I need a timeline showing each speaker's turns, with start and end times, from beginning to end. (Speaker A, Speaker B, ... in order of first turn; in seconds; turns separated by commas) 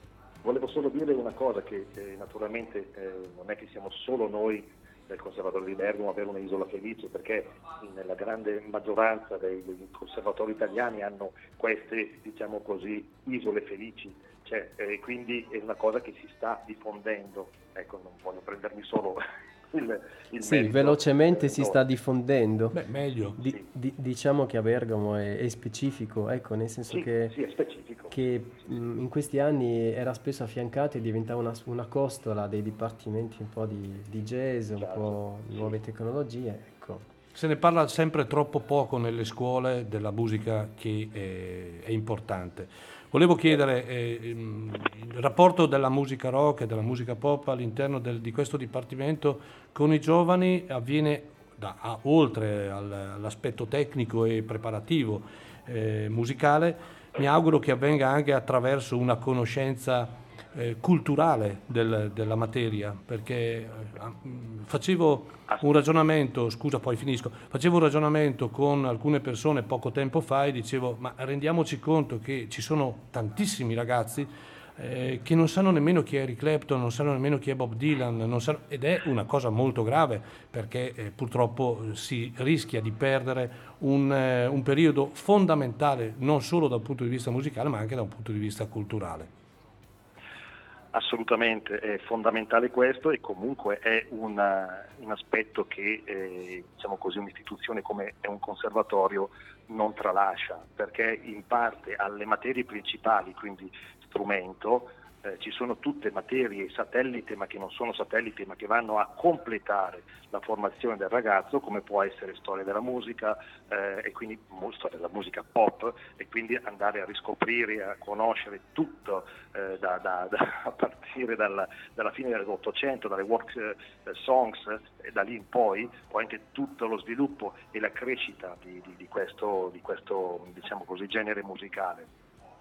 Speaker A: 0.4-21.8, Speaker B: 20.4-22.8, Speaker C: 22.7-23.4, Speaker B: 23.4-27.4, Speaker A: 26.9-28.2, Speaker B: 28.1-37.1, Speaker A: 34.8-35.7, Speaker C: 37.4-89.3, Speaker A: 90.9-132.1